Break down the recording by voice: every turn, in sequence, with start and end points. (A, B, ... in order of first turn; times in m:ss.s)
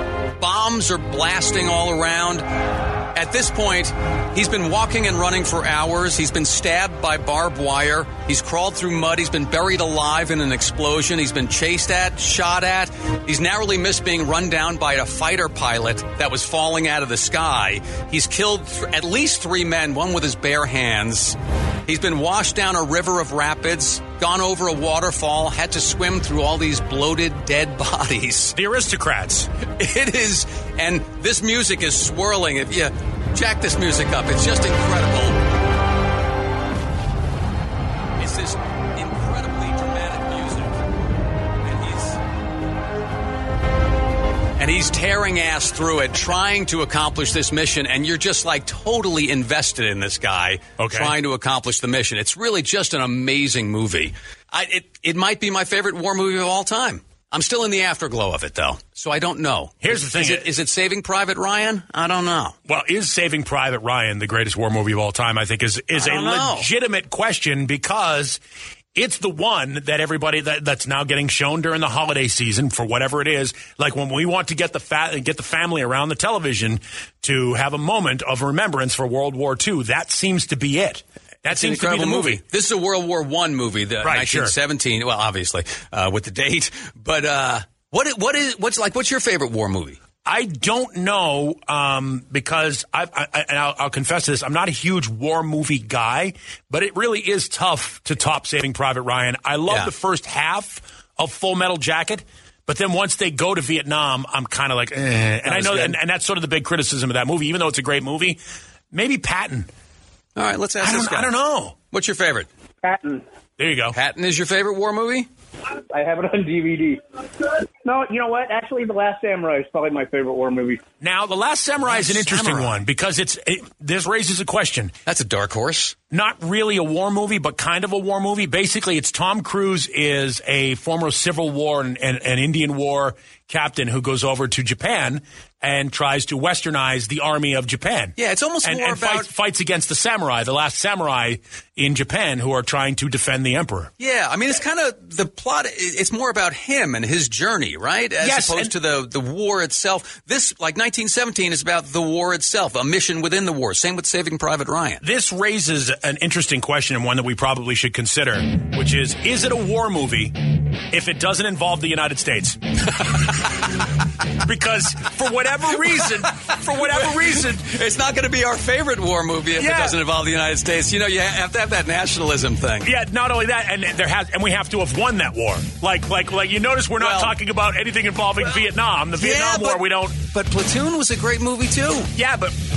0:00.4-0:02.4 A
0:03.1-0:21.4 A
0:21.9-0:28.6 A
0:28.5-0:29.5 B
0:29.8-0:35.4 A
0:38.2-0:40.8 A
0:41.6-0:42.2 A
0:44.6-1:02.6 A
0:50.8-0:51.1 B
0:59.8-1:00.5 B
1:02.7-1:08.4 B
1:05.9-1:06.7 A
1:08.9-1:22.4 B
1:21.4-1:30.0 A
1:24.0-1:24.5 B
1:30.2-1:48.4 B
1:39.7-1:39.9 A
1:45.4-1:46.0 A
1:48.9-1:49.7 B
1:50.4-1:51.3 A
1:50.8-1:51.8 B
1:51.9-1:52.5 A
1:52.8-1:53.2 C
1:53.6-1:54.0 B
1:53.9-1:55.3 A
1:55.9-1:57.0 C
1:57.8-2:00.8 C
2:01.0-2:04.9 B
2:01.8-2:02.8 A
2:05.1-2:06.0 A
2:06.1-2:23.9 B
2:18.2-2:19.3 A
2:24.0-2:35.0 A
2:28.2-2:28.7 B
2:35.0-2:40.3 B
2:40.9-2:42.6 B
2:44.4-2:47.6 B
2:46.0-2:52.9 A
2:49.6-2:50.0 B
2:52.8-3:00.2 B
2:57.0-2:57.3 A
2:59.2-3:02.1 A
3:02.2-3:02.5 B